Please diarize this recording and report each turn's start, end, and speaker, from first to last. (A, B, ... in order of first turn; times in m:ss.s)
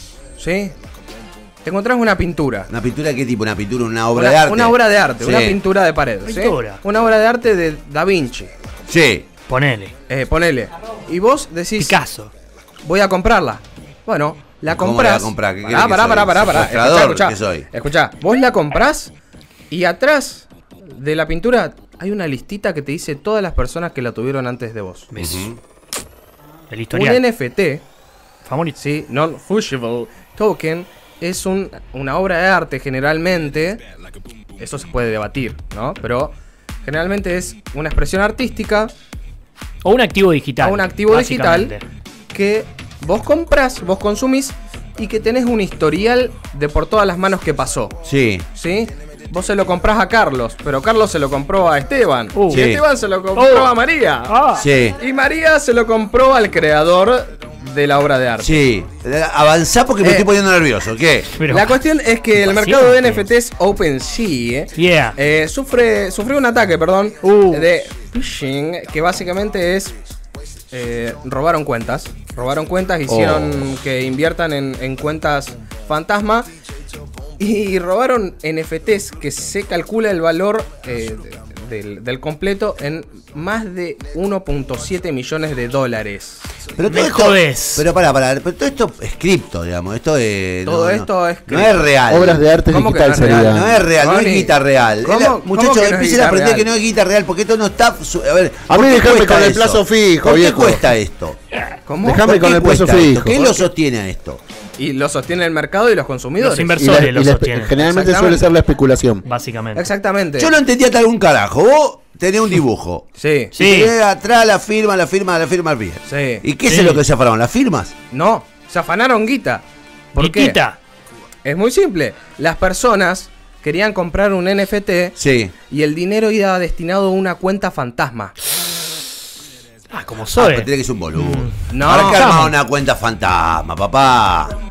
0:00.4-0:00.7 A
0:01.6-0:02.7 A
0:02.7-0:05.6 B
0:04.2-0:08.5 A
0:06.2-0:06.8 C
0:08.9-0:09.3 B
0:09.5-0:09.9 C
0:10.1-0:11.9 A
0:11.8-0:12.3 C
0:12.8-0:19.1 A
0:14.7-0:17.7 B
0:19.7-0:25.1 A
0:25.1-0:25.5 C
0:25.2-0:25.6 B
0:26.7-0:27.2 C
0:26.9-0:27.8 A
0:28.5-0:28.8 C
0:28.8-0:33.8 A
0:34.6-0:38.9 A
0:39.8-0:41.8 C
0:40.6-0:41.8 A
0:42.3-0:48.0 A
0:48.0-0:48.4 B
0:48.5-0:54.3 A
0:52.3-0:52.7 C
0:52.5-0:52.8 B
0:53.4-0:53.7 C
0:54.3-0:54.7 C
0:54.6-0:55.0 B
0:55.0-0:58.6 A
0:58.4-1:01.3 B
1:00.0-1:00.3 A
1:01.3-1:01.8 C
1:01.5-1:09.9 A
1:02.4-1:03.2 C
1:04.7-1:05.2 C
1:07.2-1:07.7 C
1:10.7-1:16.5 A
1:13.1-1:13.7 B
1:17.4-1:26.5 A
1:26.8-1:32.5 B
1:26.9-1:27.9 C
1:30.6-1:31.9 A
1:32.1-1:33.8 D
1:32.6-1:36.7 A
1:33.2-1:41.4 B
1:38.7-1:40.8 D
1:41.9-1:42.3 A
1:42.0-1:43.7 D
1:42.2-1:44.4 B
1:44.8-1:46.8 A
1:46.4-1:47.8 C
1:46.8-1:49.2 D
1:47.8-1:48.5 A
1:49.2-1:49.9 C
1:49.7-1:50.5 A
1:50.4-1:57.9 B
1:53.2-1:53.5 A
1:53.5-1:53.9 C
1:56.0-1:56.5 A
1:56.7-1:57.0 C
1:58.1-2:00.6 A
2:00.2-2:00.8 C
2:01.4-2:05.2 A
2:05.2-2:05.5 B
2:05.7-2:08.3 A
2:09.9-2:12.6 C
2:10.3-2:14.6 B
2:11.7-2:12.3 A